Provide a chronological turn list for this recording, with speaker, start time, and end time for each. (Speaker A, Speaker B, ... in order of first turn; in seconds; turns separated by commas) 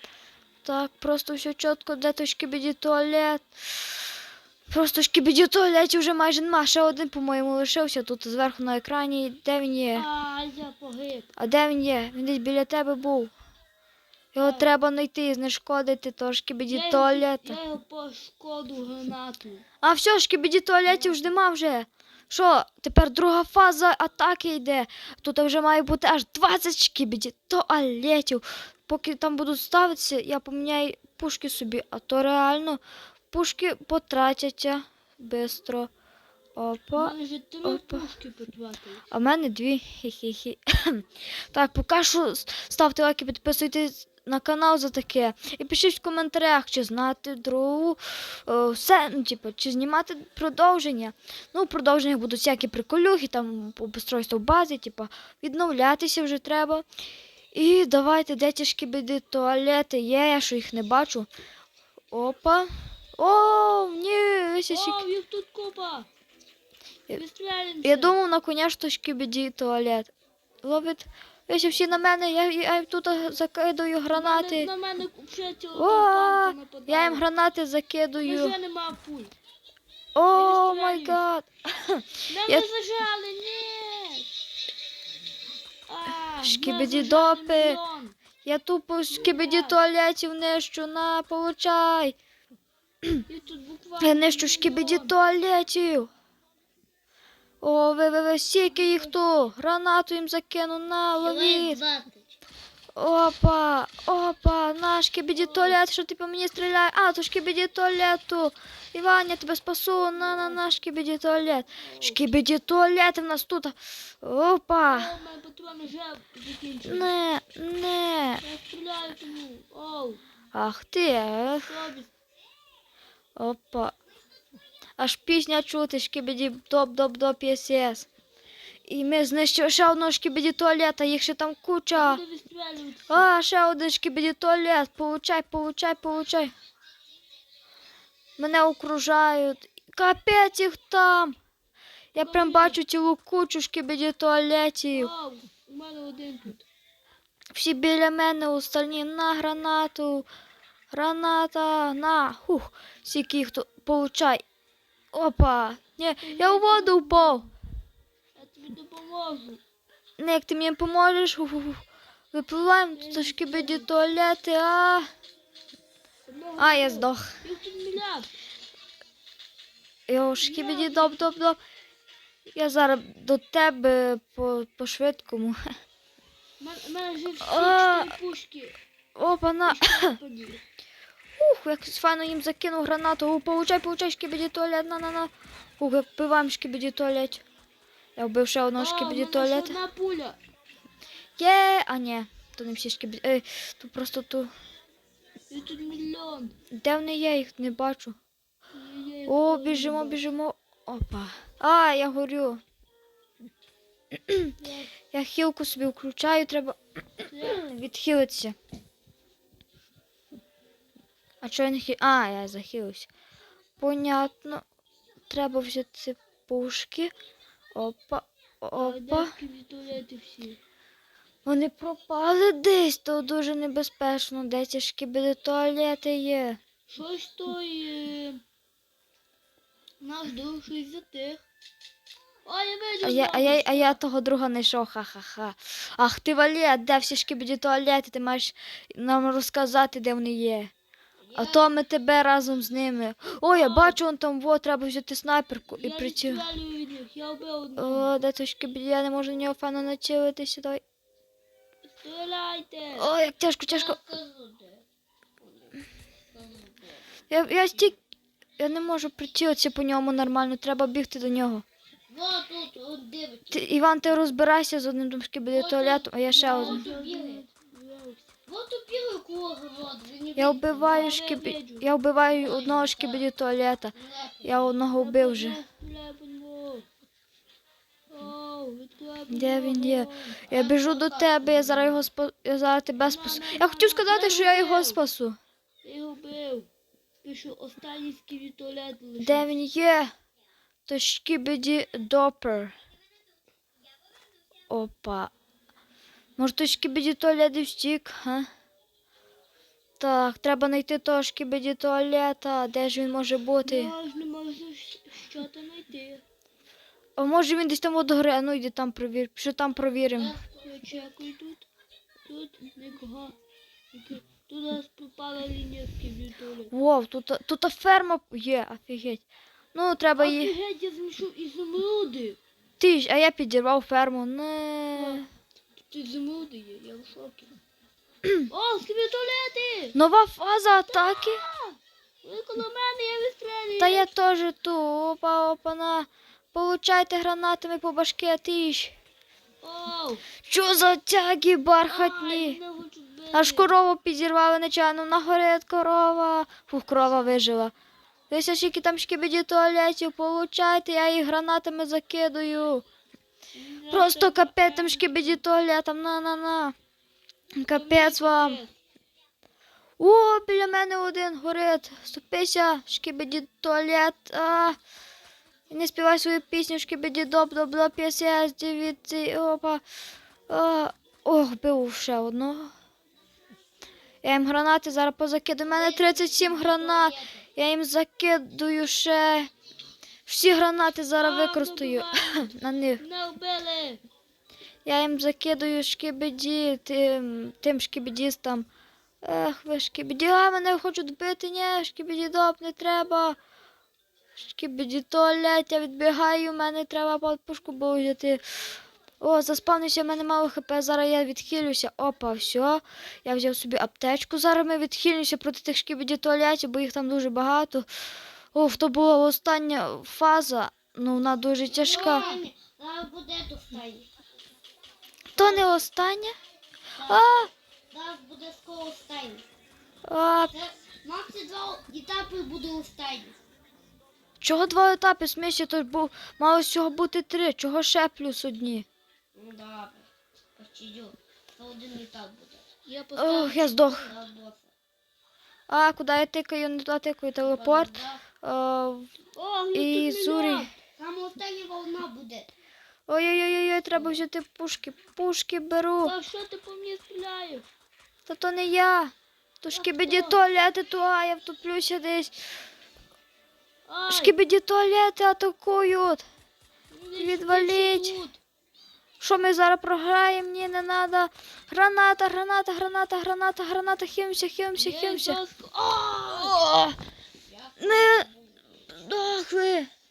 Speaker A: 0.6-3.5, Speaker A: 4.7-10.1, Speaker B: 9.9-11.3, Speaker A: 11.4-13.3, Speaker A: 14.3-17.6, Speaker B: 14.4-14.7, Speaker B: 16.7-19.6, Speaker A: 19.8-35.9, Speaker B: 20.9-21.2, Speaker A: 36.5-38.1, Speaker B: 37.0-39.0, Speaker A: 39.1-56.8, Speaker A: 57.5-61.3, Speaker A: 62.1-65.0, Speaker B: 64.7-66.1, Speaker B: 67.1-68.2, Speaker A: 67.8-70.1, Speaker A: 70.6-74.7, Speaker B: 74.1-77.2, Speaker A: 75.7-78.5, Speaker B: 78.2-79.3, Speaker A: 80.1-82.6, Speaker B: 80.3-81.2, Speaker B: 82.3-84.3, Speaker B: 85.9-88.1, Speaker A: 86.4-87.8, Speaker A: 88.4-92.2, Speaker B: 89.1-89.8, Speaker B: 93.3-95.2, Speaker A: 94.0-96.1, Speaker A: 97.6-101.8, Speaker B: 98.7-99.1, Speaker C: 101.2-102.3, Speaker A: 103.0-115.1, Speaker B: 105.3-105.8, Speaker B: 110.1-110.6, Speaker B: 111.8-112.2, Speaker B: 114.8-117.1, Speaker A: 116.8-118.4, Speaker B: 118.4-120.2, Speaker A: 120.5-121.7, Speaker B: 121.6-122.1, Speaker A: 123.3-123.9, Speaker A: 125.0-128.1, Speaker A: 128.9-132.2, Speaker B: 131.9-133.3, Speaker A: 133.1-136.5, Speaker A: 138.4-141.3, Speaker A: 142.1-145.1, Speaker B: 142.2-142.8, Speaker B: 144.9-146.6, Speaker A: 147.5-150.3, Speaker A: 150.9-154.4, Speaker A: 155.1-157.5, Speaker B: 156.2-157.5, Speaker B: 158.3-159.6, Speaker A: 160.2-165.1, Speaker B: 162.9-163.9, Speaker B: 166.3-168.3, Speaker A: 166.6-167.4, Speaker A: 170.1-171.6, Speaker B: 170.4-171.3, Speaker A: 172.5-175.6, Speaker B: 176.6-178.8, Speaker A: 177.4-178.1, Speaker A: 179.2-180.2, Speaker B: 179.6-180.6, Speaker A: 181.4-187.4, Speaker A: 188.2-189.8, Speaker B: 188.8-190.4, Speaker A: 191.4-194.5, Speaker B: 195.5-196.5, Speaker A: 196.7-198.2, Speaker B: 198.7-200.2, Speaker A: 199.3-202.6, Speaker A: 204.3-204.5, Speaker B: 204.6-204.9, Speaker A: 205.1-206.8, Speaker B: 207.3-207.6, Speaker A: 207.4-208.6, Speaker A: 211.4-213.1, Speaker A: 213.8-214.6, Speaker A: 215.3-217.1, Speaker A: 217.7-219.3, Speaker B: 218.8-220.6, Speaker A: 221.4-226.6, Speaker B: 226.9-228.4, Speaker B: 230.0-231.4, Speaker B: 232.4-234.0, Speaker A: 233.0-240.7, Speaker C: 241.3-241.7, Speaker A: 241.3-246.4, Speaker B: 243.5-244.0, Speaker B: 245.8-248.1, Speaker A: 247.8-250.8, Speaker B: 251.9-253.1, Speaker A: 252.9-254.0, Speaker C: 253.7-254.8, Speaker C: 255.4-255.8, Speaker C: 256.3-257.0, Speaker A: 257.3-258.0, Speaker A: 258.6-261.6, Speaker C: 262.1-263.7, Speaker A: 263.5-266.9, Speaker C: 265.5-267.4, Speaker B: 266.3-268.2, Speaker C: 268.5-271.1, Speaker A: 270.4-275.6, Speaker B: 270.8-271.9, Speaker C: 272.3-273.2, Speaker C: 273.9-274.8, Speaker B: 274.9-276.9, Speaker B: 278.1-280.4, Speaker A: 279.3-285.4, Speaker C: 280.5-282.0, Speaker B: 283.0-285.0, Speaker B: 285.8-286.7, Speaker B: 287.2-289.5, Speaker A: 289.2-290.1, Speaker A: 290.9-292.7, Speaker A: 294.7-295.3, Speaker A: 296.4-298.5, Speaker A: 300.0-303.9, Speaker B: 303.6-306.2, Speaker A: 307.2-310.4, Speaker B: 310.1-311.6, Speaker B: 312.2-313.4, Speaker B: 313.9-316.7, Speaker A: 316.7-320.6, Speaker B: 320.2-322.4, Speaker A: 322.8-325.2, Speaker B: 324.9-325.2, Speaker B: 325.9-327.5, Speaker B: 328.5-329.9, Speaker A: 329.9-331.4, Speaker B: 330.9-334.1, Speaker A: 333.8-338.9, Speaker B: 339.6-340.2, Speaker A: 340.4-342.6, Speaker B: 341.9-343.7, Speaker A: 343.3-347.7, Speaker A: 348.3-352.8, Speaker B: 353.5-355.4, Speaker A: 353.9-356.7, Speaker A: 357.6-358.6, Speaker B: 357.6-358.7, Speaker A: 360.0-364.8, Speaker A: 365.7-369.8, Speaker A: 370.5-372.7, Speaker A: 374.2-379.5, Speaker C: 375.6-377.4, Speaker A: 380.2-383.0, Speaker B: 381.1-384.0, Speaker A: 384.8-388.7, Speaker A: 389.2-393.4, Speaker A: 394.4-398.4, Speaker A: 399.2-407.9, Speaker A: 408.5-412.4, Speaker C: 411.7-414.1, Speaker C: 415.4-415.7, Speaker A: 415.4-416.3, Speaker C: 417.0-419.4, Speaker A: 417.0-417.5, Speaker A: 420.1-420.5, Speaker C: 420.5-423.4, Speaker A: 424.4-428.9, Speaker C: 429.3-432.6, Speaker B: 432.9-433.9, Speaker A: 433.2-434.1, Speaker C: 433.9-434.7, Speaker A: 435.7-439.1, Speaker C: 437.4-438.2, Speaker B: 439.3-440.7, Speaker A: 439.7-440.7, Speaker C: 441.0-442.5, Speaker A: 443.1-446.1, Speaker B: 446.0-447.6, Speaker A: 448.3-452.4, Speaker C: 449.7-450.3, Speaker B: 453.9-454.4, Speaker A: 454.1-456.2, Speaker B: 456.9-458.4, Speaker A: 457.1-458.2, Speaker A: 459.2-465.4, Speaker B: 464.8-466.6, Speaker A: 466.3-467.0, Speaker C: 467.4-468.6, Speaker A: 467.8-468.3, Speaker A: 468.9-469.9